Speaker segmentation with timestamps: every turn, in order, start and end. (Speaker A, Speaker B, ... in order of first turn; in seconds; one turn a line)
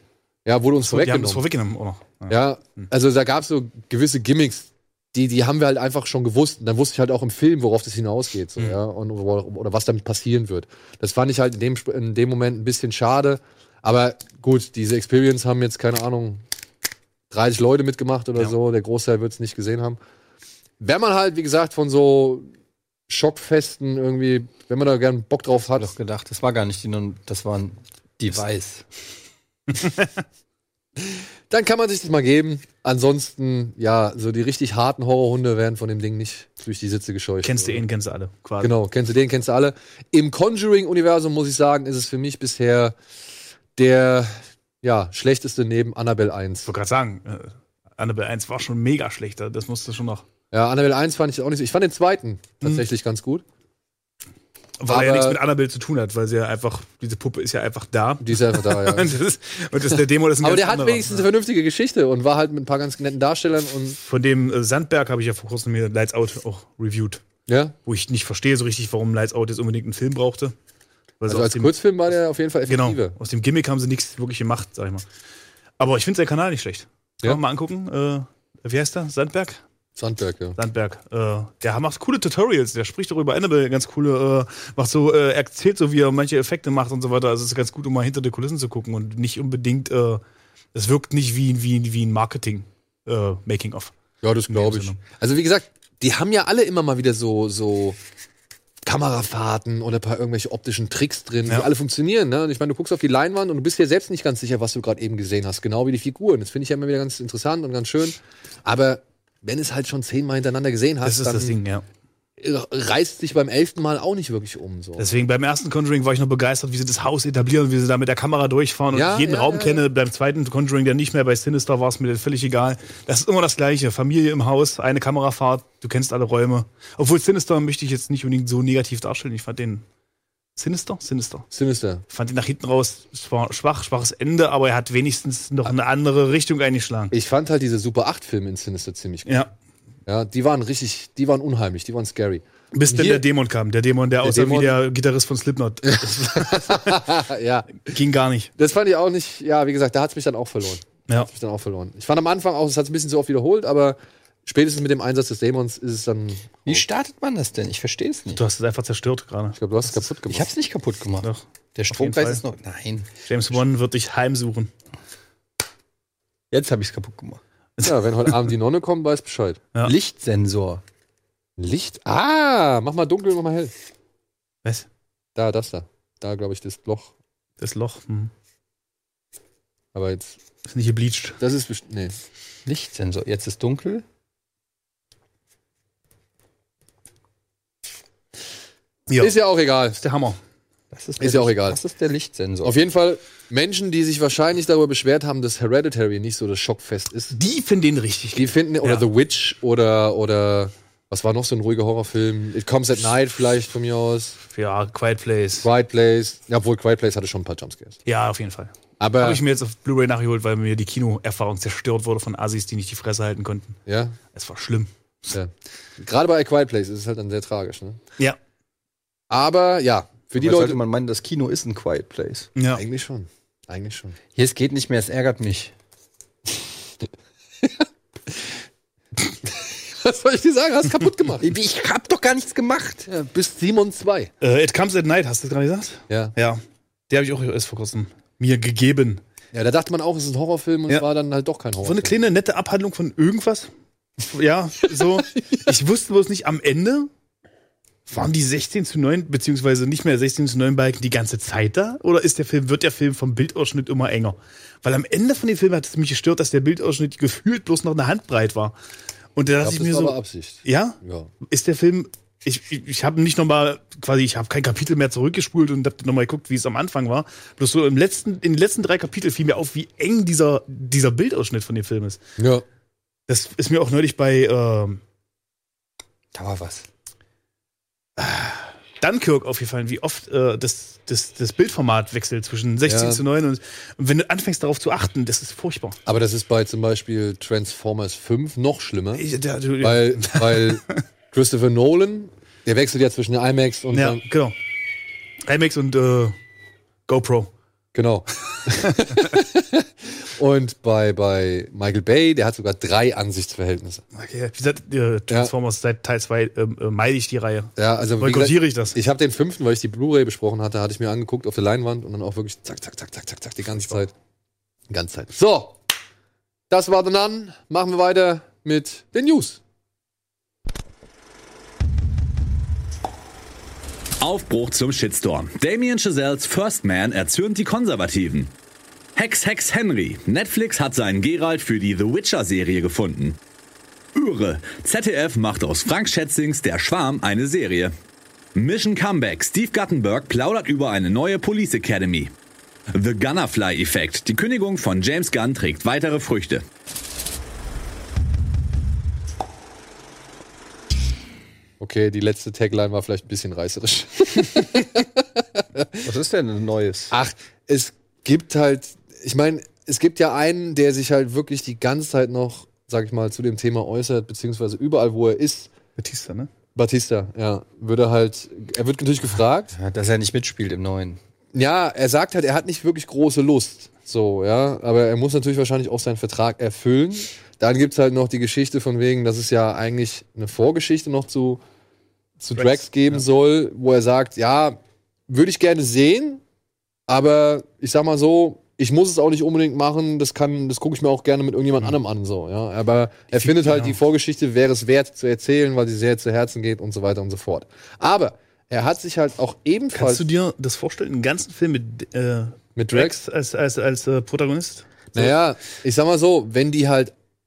Speaker A: 0.5-1.4
Speaker B: 0.8-2.9
Speaker A: 2.3-16.4
Speaker A: 17.3-20.0
Speaker A: 20.8-22.5
Speaker A: 23.1-25.9
Speaker C: 25.8-28.8
Speaker A: 31.5-37.8
Speaker B: 37.4-38.7
Speaker A: 38.6-43.0
Speaker A: 43.8-46.7
Speaker B: 46.7-50.2
Speaker A: 50.5-53.4
Speaker B: 54.8-61.3
Speaker A: 54.9-55.4
Speaker A: 58.2-59.1
Speaker A: 60.4-64.0
Speaker B: 64.0-67.2
Speaker A: 67.5-67.8
Speaker B: 67.9-70.5
Speaker B: 71.2-71.8
Speaker A: 71.3-73.2
Speaker B: 72.7-75.0
Speaker B: 75.8-79.6
Speaker A: 80.0-80.6
Speaker B: 80.6-90.2
Speaker B: 90.7-93.9
Speaker A: 94.2-98.0
Speaker B: 94.5-95.0
Speaker A: 98.9-111.6
Speaker B: 111.0-111.8
Speaker A: 112.4-115.1
Speaker B: 115.0-129.8
Speaker A: 118.9-119.8
Speaker B: 130.6-131.5
Speaker A: 131.5-132.0
Speaker B: 132.1-137.1
Speaker A: 137.1-139.5
Speaker B: 139.3-139.5
Speaker A: 140.1-143.2
Speaker B: 142.7-147.0
Speaker A: 144.2-144.8
Speaker A: 145.9-147.8
Speaker B: 147.8-148.5
Speaker A: 148.6-156.8
Speaker C: 156.7-158.4
Speaker B: 158.3-159.9
Speaker A: 159.6-160.5
Speaker C: 160.3-163.2
Speaker B: 161.2-162.4
Speaker B: 163.3-164.7
Speaker C: 166.5-167.4
Speaker B: 167.8-168.4
Speaker A: 167.8-169.6
Speaker C: 169.8-170.8
Speaker A: 171.6-173.7
Speaker A: 175.4-177.1
Speaker B: 177.6-178.3
Speaker A: 179.9-180.4
Speaker B: 180.7-181.4
Speaker A: 181.4-182.1
Speaker C: 182.7-184.1
Speaker B: 189.1-189.3
Speaker A: 189.2-190.0
Speaker B: 190.0-190.4
Speaker C: 190.9-192.8
Speaker A: 191.2-191.8
Speaker A: 192.6-197.4
Speaker B: 197.3-199.1
Speaker A: 198.3-204.4
Speaker B: 204.5-205.7
Speaker A: 205.6-208.0
Speaker B: 208.1-213.8
Speaker A: 209.0-209.4
Speaker A: 213.9-214.2
Speaker B: 214.3-214.9
Speaker A: 215.3-218.0
Speaker A: 219.3-220.8
Speaker C: 220.4-222.5
Speaker B: 222.6-222.8
Speaker A: 222.7-224.2
Speaker C: 224.3-225.7
Speaker A: 229.7-231.4
Speaker C: 231.4-233.1
Speaker A: 233.1-234.3
Speaker B: 234.4-239.2
Speaker A: 239.5-242.1
Speaker B: 241.8-247.1
Speaker B: 248.1-258.8
Speaker B: 259.4-272.2
Speaker A: 259.6-261.3
Speaker A: 272.4-272.6
Speaker B: 273.3-275.0
Speaker C: 276.3-276.9
Speaker B: 278.2-286.0
Speaker A: 282.9-283.2
Speaker A: 286.1-289.2
Speaker B: 289.2-291.0
Speaker A: 289.8-294.2
Speaker B: 293.9-294.6
Speaker B: 295.4-296.4
Speaker B: 297.1-297.5
Speaker A: 297.9-304.0
Speaker B: 304.1-309.0
Speaker A: 307.8-314.1
Speaker A: 314.9-315.8
Speaker A: 316.7-319.6
Speaker D: 324.2-328.5
Speaker D: 329.1-333.4
Speaker D: 334.1-337.9
Speaker D: 338.6-342.3
Speaker D: 342.9-346.6
Speaker A: 351.8-355.1
Speaker A: 355.8-356.0
Speaker C: 356.0-357.1
Speaker A: 357.1-365.7
Speaker B: 366.0-366.5
Speaker A: 366.8-369.7
Speaker C: 369.7-371.2
Speaker A: 371.5-381.6
Speaker A: 382.4-386.4
Speaker B: 382.6-383.1
Speaker A: 387.1-400.2
Speaker B: 393.3-394.0
Speaker B: 399.9-405.3
Speaker A: 402.8-403.2
Speaker A: 405.1-407.1